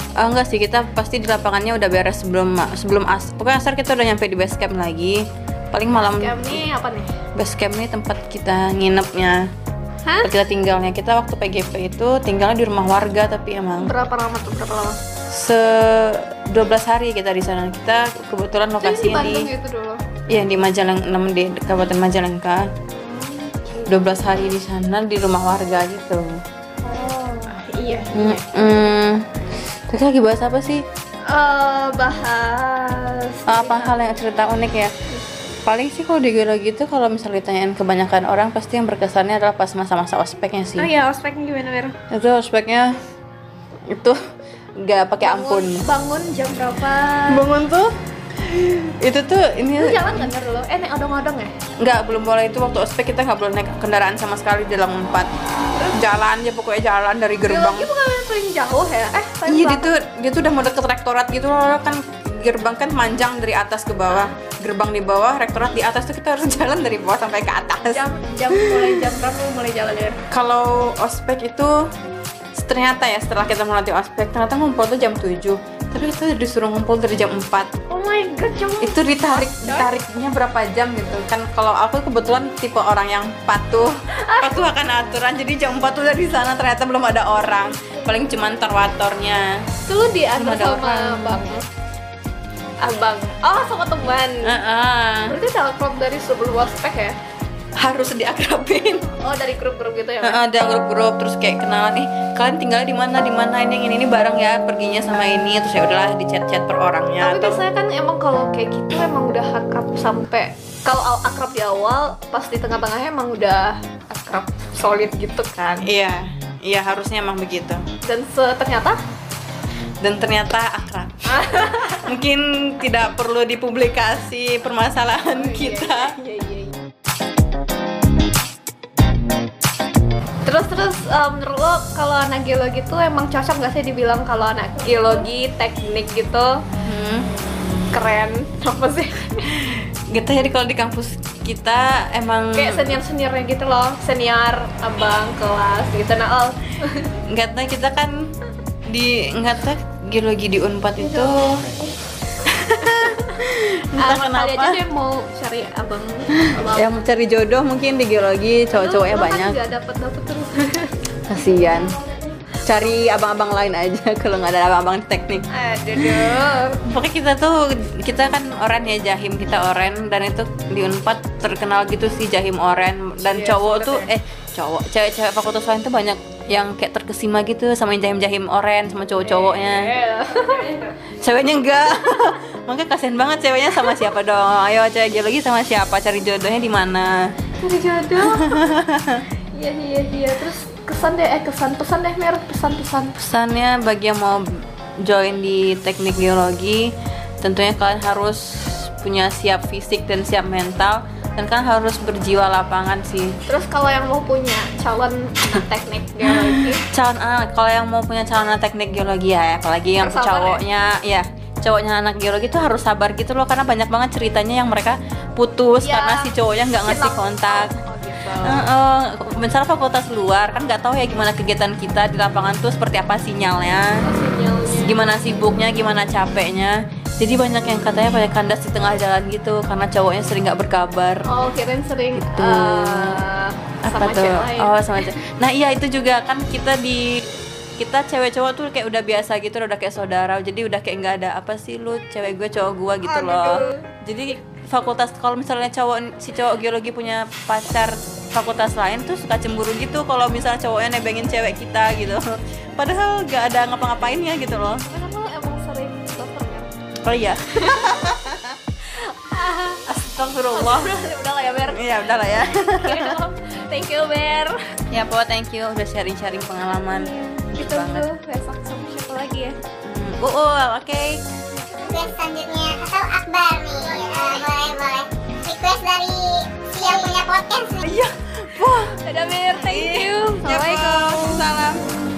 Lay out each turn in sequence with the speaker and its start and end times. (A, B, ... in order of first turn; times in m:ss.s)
0:00.2-0:06.6 A
0:05.9-0:07.1 B
0:07.3-0:09.4 A
0:10.0-0:10.3 B
0:10.2-0:13.9 A
0:13.8-0:15.0 B
0:15.3-0:19.5 A
0:18.8-0:20.0 B
0:20.3-0:22.6 A
0:23.0-0:24.1 B
0:23.9-0:26.2 A
0:26.8-0:28.6 B
0:28.1-0:29.2 A
0:29.9-0:30.8 A
0:31.3-0:34.0 B
0:33.5-0:34.9 A
0:35.6-0:40.9 A
0:40.8-0:42.0 B
0:42.1-0:42.9 A
0:43.9-0:44.2 A
0:44.8-0:45.8 A
0:45.2-0:47.4 B
0:47.3-0:50.3 A
0:49.8-0:51.5 B
0:51.8-0:55.3 A
0:55.7-0:56.0 B
0:55.9-0:57.9 A
0:57.5-0:59.9 B
0:59.5-1:09.0 A
1:07.9-1:10.2 B
1:10.3-1:11.7 A
1:12.5-1:17.7 A
1:17.9-1:19.9 B
1:18.8-1:29.5 A
1:24.1-1:24.7 B
1:29.8-1:31.6 B
1:30.4-1:31.4 A
1:32.8-1:34.6 B
1:34.4-1:35.4 A
1:35.3-1:37.2 B
1:37.8-1:39.1 A
1:39.1-1:40.4 B
1:40.2-1:47.6 A
1:47.2-1:55.9 B
1:55.8-1:57.8 A
1:58.0-1:59.0 B
2:00.0-2:06.1 A
2:01.3-2:02.1 B
2:05.3-2:06.8 B
2:10.4-2:16.6 B
2:16.8-2:17.3 A
2:17.9-2:19.5 B
2:19.5-2:23.0 A
2:22.5-2:27.2 B
2:27.3-2:28.1 A
2:28.9-2:31.5 A
2:31.0-2:31.7 B
2:32.4-2:34.8 A
2:32.9-2:33.4 B
2:33.9-2:37.0 B
2:36.4-2:39.6 A
2:38.7-2:41.0 B
2:41.3-2:42.0 A
2:42.6-2:45.4 A
2:45.5-2:46.8 B
2:46.0-2:59.9 A
2:53.2-2:54.1 B
2:59.2-3:00.9 B
3:01.2-3:07.1 A
3:07.6-3:08.6 B
3:08.2-3:09.2 A
3:09.5-3:13.2 B
3:13.2-3:14.4 A
3:15.0-3:16.9 A
3:17.4-3:23.3 A
3:23.4-3:26.8 B
3:26.3-3:37.7 A
3:30.0-3:30.6 B
3:35.8-3:38.6 B
3:38.4-3:44.0 A
3:44.0-3:45.0 B
3:44.7-3:51.2 A
3:51.2-3:54.8 B
3:52.1-3:53.2 A
3:53.8-3:57.2 A
3:57.8-4:14.8 A
4:03.0-4:03.9 B
4:14.8-4:16.7 B
4:17.0-4:18.6 A
4:17.6-4:18.2 B
4:18.9-4:19.8 B
4:19.8-4:20.9 A
4:20.5-4:24.7 B
4:21.6-4:23.1 A
4:24.9-4:28.1 A
4:26.9-4:29.6 B
4:29.8-4:31.2 A
4:31.8-4:32.1 B
4:31.9-4:37.8 C
4:37.7-4:39.0 A
4:39.0-4:41.4 B
4:39.5-4:41.9 A